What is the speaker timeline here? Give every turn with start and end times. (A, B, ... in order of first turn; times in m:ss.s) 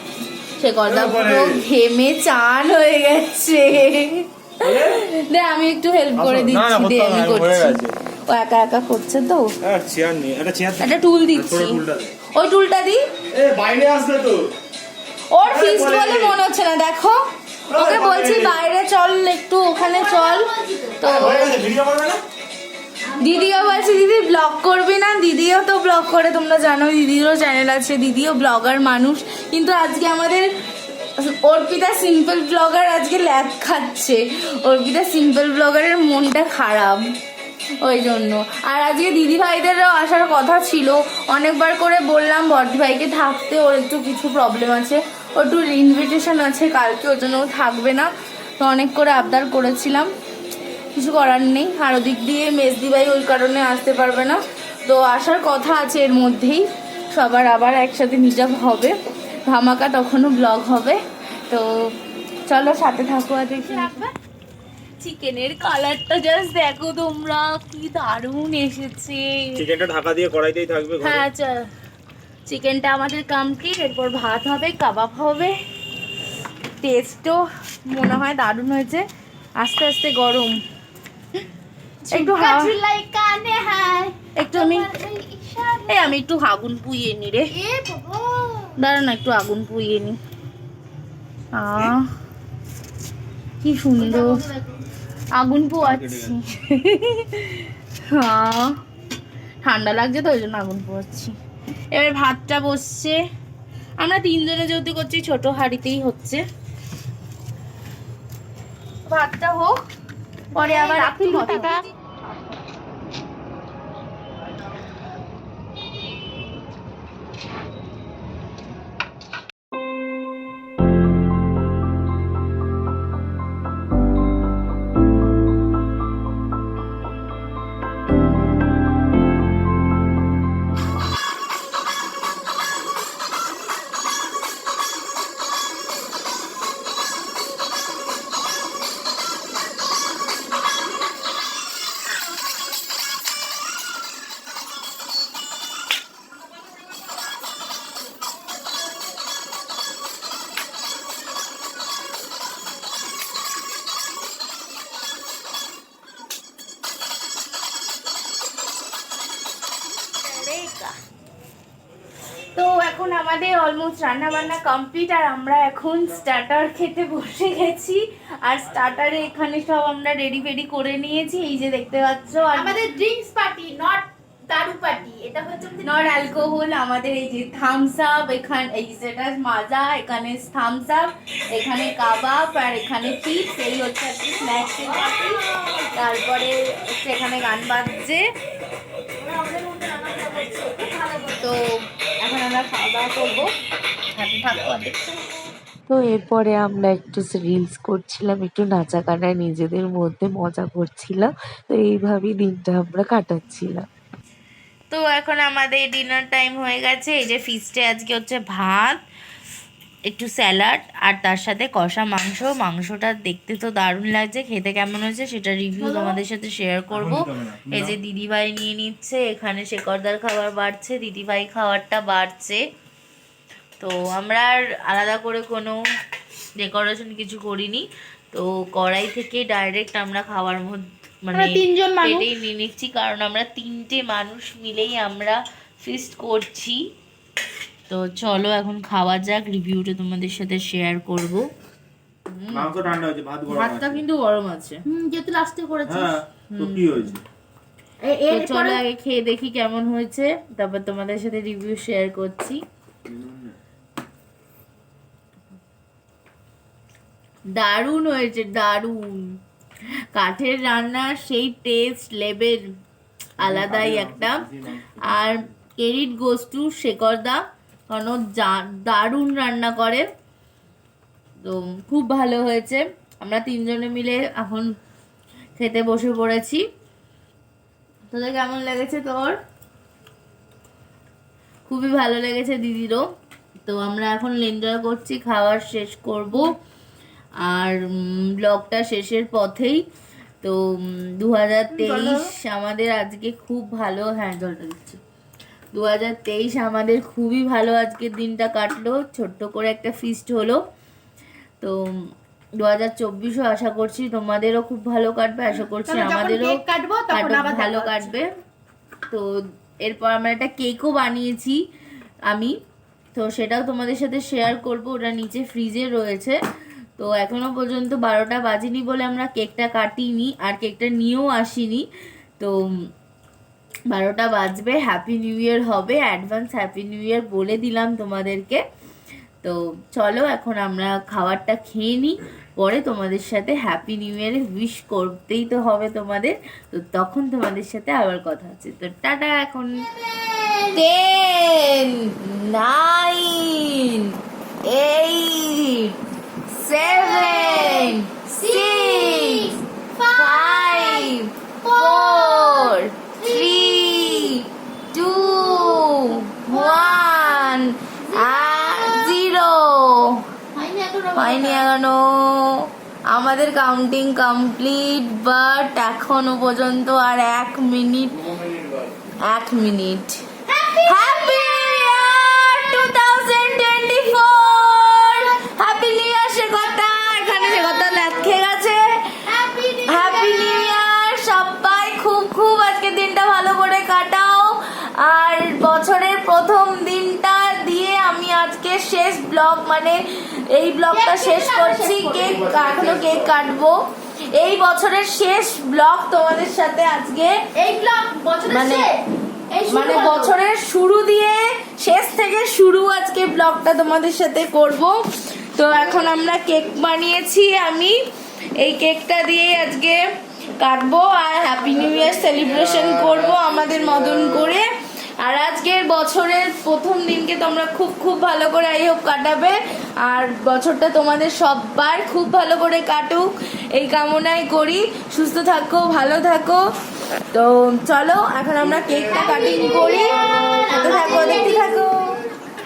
0:00.6-0:09.5 A
0:00.9-0:01.6 B
0:04.6-0:05.0 B
0:06.2-0:07.9 B
0:09.6-0:12.1 B
0:10.8-0:11.8 A
0:12.3-0:13.0 A
0:13.3-0:14.5 B
0:15.3-0:21.7 A
0:15.4-0:16.4 B
0:17.7-0:18.5 B
0:19.8-0:21.0 C
0:21.0-0:22.2 B
0:23.0-0:24.0 C
0:23.2-0:30.5 A
0:31.2-0:37.0 A
0:37.8-0:48.1 A
0:48.6-0:50.1 A
0:51.0-0:59.0 A
0:59.5-1:01.7 A
1:02.5-1:04.0 A
1:03.6-1:04.1 C
1:05.0-1:09.6 A
1:09.6-1:11.2 B
1:11.0-1:11.7 A
1:12.5-1:15.6 A
1:16.8-1:19.1 A
1:19.6-1:20.6 A
1:22.0-1:26.2 C
1:22.1-1:22.8 A
1:24.4-1:24.9 A
1:25.9-1:27.5 A
1:27.5-1:28.8 C
1:28.8-1:30.2 A
1:31.6-1:32.1 A
1:33.6-1:34.4 A
1:34.0-1:34.7 C
1:35.3-1:38.7 A
1:35.8-1:36.3 B
1:39.6-1:41.4 A
1:41.9-1:43.2 A
1:44.0-1:46.4 A
1:49.1-1:49.8 A
1:50.5-1:51.8 A
1:50.5-1:51.9 C
2:40.3-2:40.9 A
2:42.5-2:52.8 A
2:52.5-2:56.0 C
2:55.8-3:08.3 A
3:05.1-3:05.8 C
3:09.2-3:11.4 C
3:11.3-3:11.7 A
3:12.2-3:13.5 A
3:14.2-3:15.0 A
3:15.9-3:23.9 D
3:24.9-3:29.0 A
3:30.1-3:42.6 A
3:35.8-3:36.2 C
3:36.9-3:37.9 B
3:43.8-3:45.8 A
3:46.6-3:56.8 A
3:51.3-3:52.3 C
3:57.9-4:01.5 A
4:02.3-4:02.9 A
4:02.5-4:04.0 B
4:03.5-4:04.8 A
4:04.9-4:06.2 C
4:05.9-4:07.2 B
4:06.5-4:07.2 A
4:08.0-4:08.8 C
4:08.3-4:12.6 A
4:13.1-4:13.5 B
4:17.5-4:19.3 A
4:20.1-4:22.7 A
4:23.4-4:30.1 A
4:23.4-4:25.4 B
4:31.4-4:34.7 A
4:35.6-4:36.6 A
4:38.1-4:39.4 A
4:41.7-4:43.0 A
4:43.6-4:46.6 A
4:47.4-4:49.8 A
4:50.4-4:55.0 A
4:51.7-4:52.2 C
4:55.7-5:00.6 A
5:01.6-5:02.1 A
5:02.6-5:06.6 A
5:05.9-5:08.1 C
5:07.1-5:08.3 A
5:09.8-5:11.6 A
5:12.3-5:12.6 A
5:13.2-5:16.4 A
5:17.0-5:21.9 A
5:23.9-5:28.6 A
5:29.4-5:39.8 A
5:39.9-5:40.8 C
5:40.7-5:46.0 A
5:46.5-5:49.5 A
5:46.8-5:54.3 C
5:50.2-6:00.2 A
5:55.3-5:55.9 C
5:56.5-5:59.2 C
6:00.5-6:01.7 C
6:01.2-6:08.3 A
6:08.5-6:08.8 B
6:09.2-6:10.2 A
6:10.5-6:11.9 C
6:10.9-6:19.2 A
6:17.0-6:18.1 C
6:19.2-6:20.8 C
6:19.9-6:37.4 A
6:30.9-6:32.6 C
6:32.6-6:33.2 B
6:37.6-6:40.4 C
6:38.5-6:38.9 A
6:39.7-6:48.0 A
6:48.6-6:50.0 A
6:50.6-6:54.7 A
6:55.2-7:06.6 A
7:07.3-7:12.2 A
7:09.1-7:11.8 C